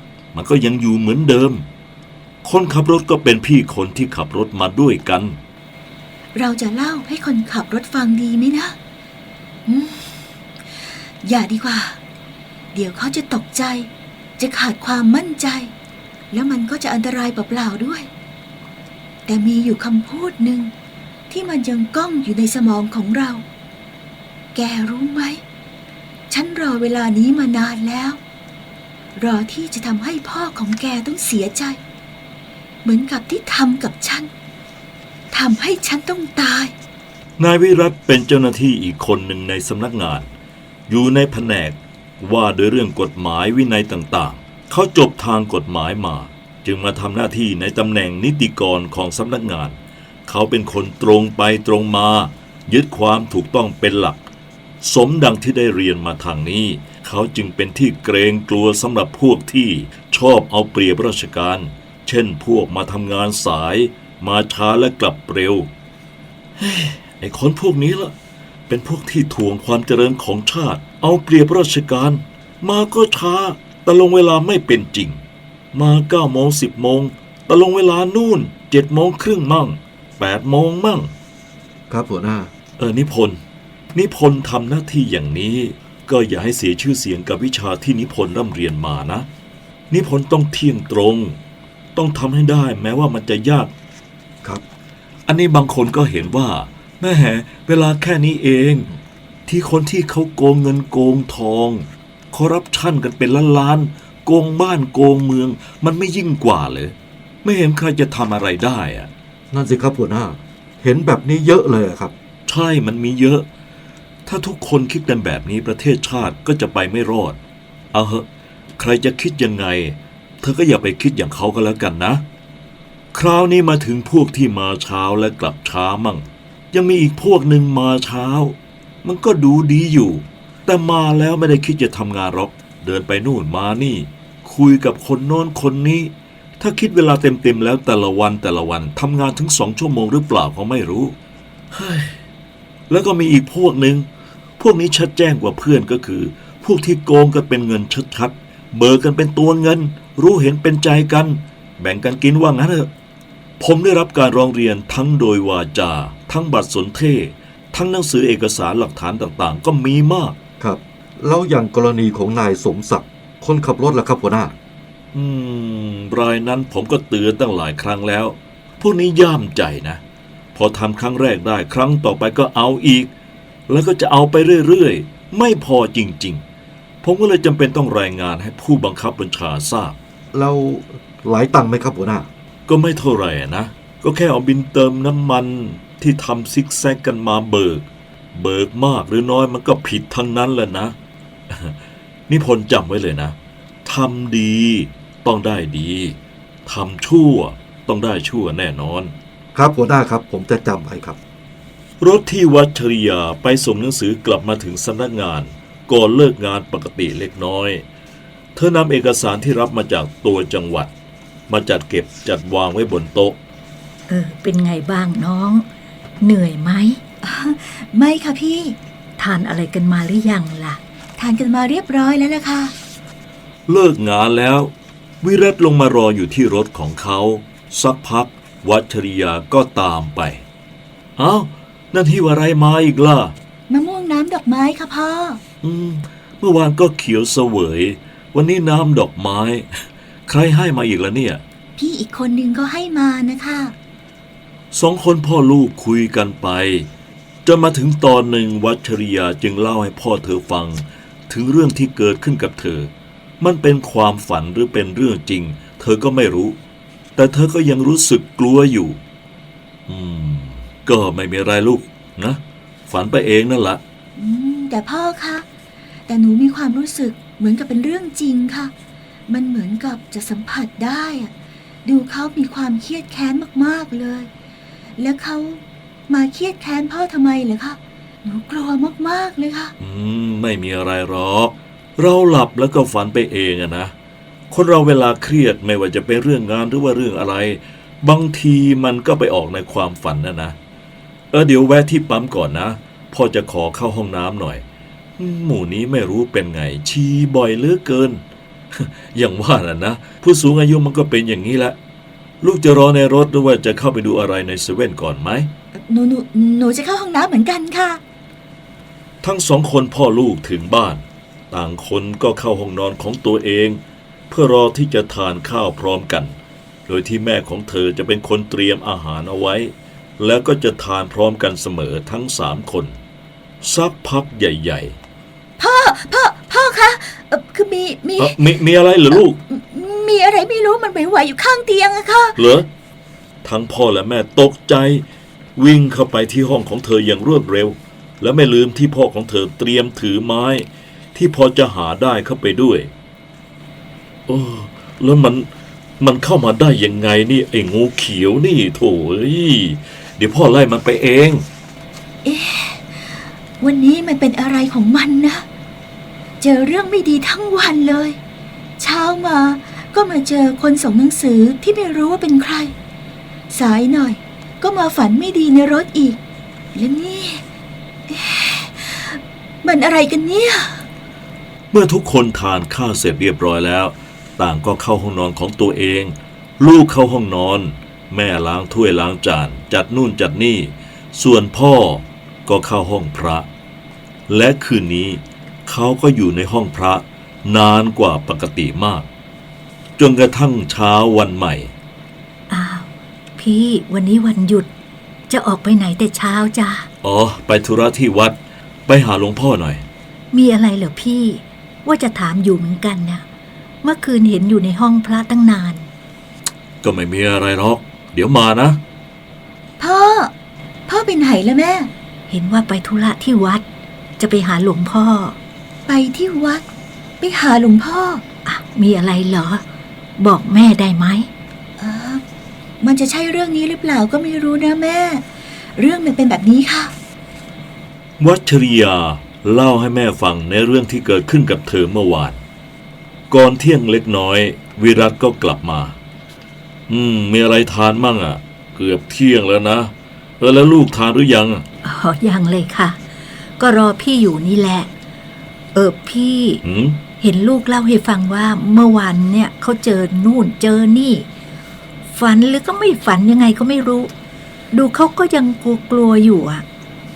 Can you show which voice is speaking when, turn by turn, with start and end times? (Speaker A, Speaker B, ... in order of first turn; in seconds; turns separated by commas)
Speaker A: 0.3-1.7, Speaker A: 2.4-5.4, Speaker B: 6.3-8.8, Speaker B: 9.7-10.2, Speaker B: 11.2-12.0, Speaker B: 12.7-15.7, Speaker B: 16.3-18.1, Speaker B: 19.3-20.7, Speaker B: 21.3-23.4, Speaker B: 24.6-25.4, Speaker B: 26.3-28.2, Speaker B: 29.2-31.8, Speaker B: 32.9-34.3, Speaker B: 35.3-36.7, Speaker A: 37.4-40.3, Speaker A: 40.9-49.8, Speaker A: 50.3-54.2, Speaker A: 54.8-65.7, Speaker A: 66.6-68.1, Speaker A: 68.7-75.2, Speaker A: 75.7-81.1, Speaker C: 81.9-82.5, Speaker A: 82.8-83.4, Speaker A: 84.0-89.3, Speaker A: 89.9-91.4, Speaker A: 92.0-93.7, Speaker A: 95.3-98.9, Speaker A: 99.5-109.1, Speaker C: 109.5-112.1, Speaker A: 112.5-113.5, Speaker A: 114.3-117.4, Speaker A: 117.9-118.3, Speaker A: 118.8-122.2, Speaker A: 123.1-141.2, Speaker A: 141.7-142.2, Speaker A: 142.9-144.1, Speaker A: 144.6-152.9, Speaker A: 153.6-160.4, Speaker C: 160.6-164.6, Speaker A: 165.1-170.0, Speaker A: 170.6-173.1, Speaker A: 173.7-176.4, Speaker A: 177.0-180.0, Speaker C: 180.3-182.3, Speaker A: 182.7-191.0, Speaker A: 191.5-191.8, Speaker A: 192.3-199.1, Speaker C: 199.6-201.2, Speaker A: 202.0-207.8, Speaker A: 208.6-210.9, Speaker A: 211.5-213.4, Speaker D: 214.1-215.7, Speaker D: 216.2-217.0, Speaker B: 217.2-218.8, Speaker D: 219.2-220.8, Speaker B: 221.2-222.7, Speaker A: 223.7-230.4, Speaker A: 231.2-233.3, Speaker B: 233.7-235.4, Speaker A: 235.6-241.4, Speaker B: 241.8-243.7, Speaker A: 244.7-246.9, Speaker A: 247.5-256.6, Speaker A: 257.2-259.0, Speaker A: 259.9-263.8, Speaker B: 264.2-265.4, Speaker B: 266.1-268.7, Speaker B: 269.3-271.3, Speaker B: 271.9-274.3, Speaker B: 275.0-279.7, Speaker A: 279.8-283.9, Speaker A: 284.5-290.6, Speaker A: 291.3-294.6, Speaker A: 295.2-298.2, Speaker A: 298.7-301.8, Speaker A: 302.4-305.5, Speaker B: 305.8-308.0, Speaker A: 309.2-316.3, Speaker A: 316.9-323.0, Speaker A: 323.6-325.0, Speaker B: 325.6-328.4, Speaker A: 328.2-329.4, Speaker B: 329.1-332.4, Speaker A: 332.4-332.7, Speaker A: 333.4-335.1, Speaker A: 335.6-342.9, Speaker A: 344.3-345.5, Speaker A: 346.0-351.4, Speaker B: 352.2-355.4, Speaker B: 356.4-358.2, Speaker B: 358.8-362.7, Speaker B: 363.5-366.2, Speaker B: 366.8-367.4, Speaker B: 368.1-370.9, Speaker A: 371.7-383.5, Speaker A: 384.3-389.1, Speaker A: 390.0-391.7, Speaker D: 392.5-394.7, Speaker D: 395.3-396.9, Speaker A: 397.0-399.8, Speaker D: 400.3-403.2, Speaker D: 403.8-405.9, Speaker A: 406.8-408.8, Speaker B: 409.8-410.3, Speaker B: 410.9-411.9, Speaker D: 412.3-413.6, Speaker D: 414.2-415.4, Speaker B: 415.9-416.6, Speaker B: 417.2-418.2, Speaker D: 418.5-419.6, Speaker D: 420.2-421.3, Speaker B: 421.8-422.2, Speaker B: 422.8-425.2, Speaker B: 425.8-426.9, Speaker A: 428.2-432.4, Speaker A: 433.3-436.0, Speaker A: 436.9-441.6, Speaker D: 441.8-443.0, Speaker D: 443.6-444.9, Speaker D: 445.8-446.6, Speaker A: 446.6-447.0, Speaker D: 447.2-451.3, Speaker D: 452.1-454.1, Speaker D: 454.7-456.6